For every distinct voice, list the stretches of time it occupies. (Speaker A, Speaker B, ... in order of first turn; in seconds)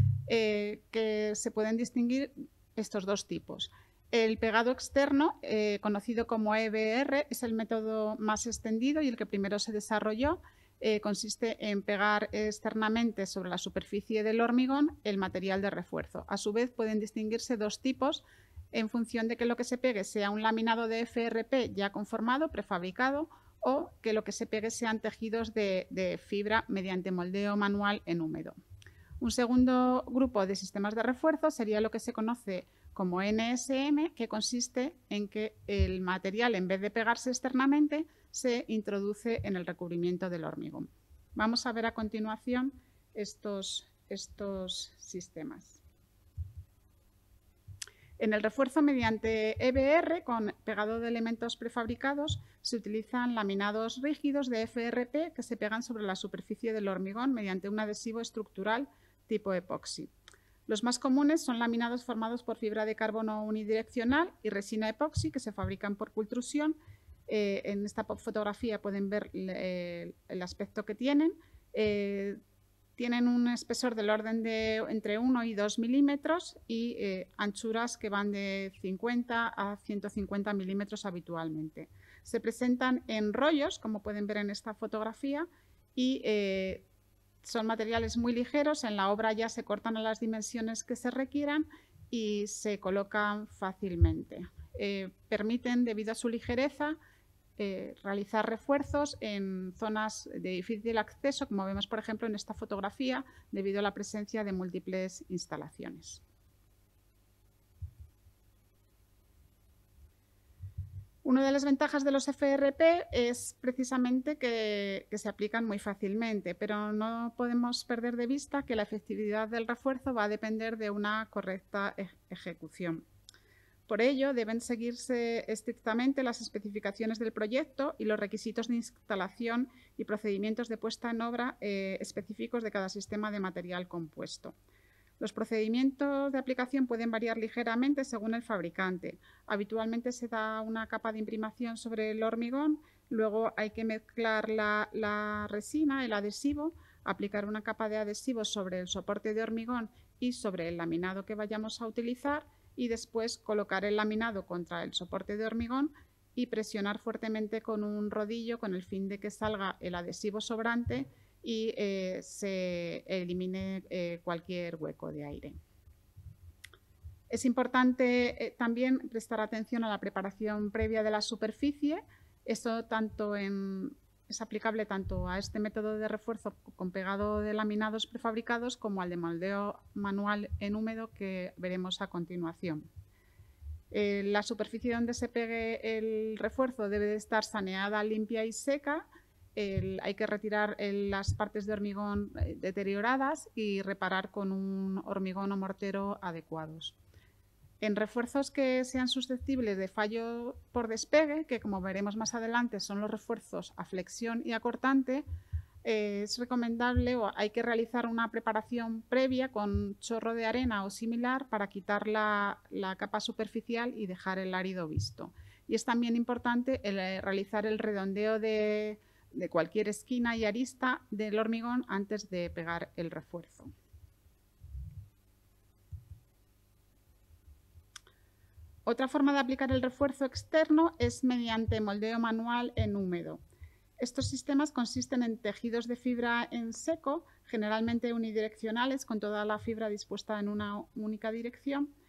Speaker A: 0.3-28.5, 29.2-45.8, 48.2-60.1, 60.7-66.8, 67.3-72.4, 73.0-86.9, 87.4-97.0, 97.6-106.2, 111.2-123.0, 123.9-134.5, 135.2-165.6, 167.3-182.9, 183.9-197.0, 197.8-205.2, 205.8-223.7, 228.9-233.4, 234.0-241.9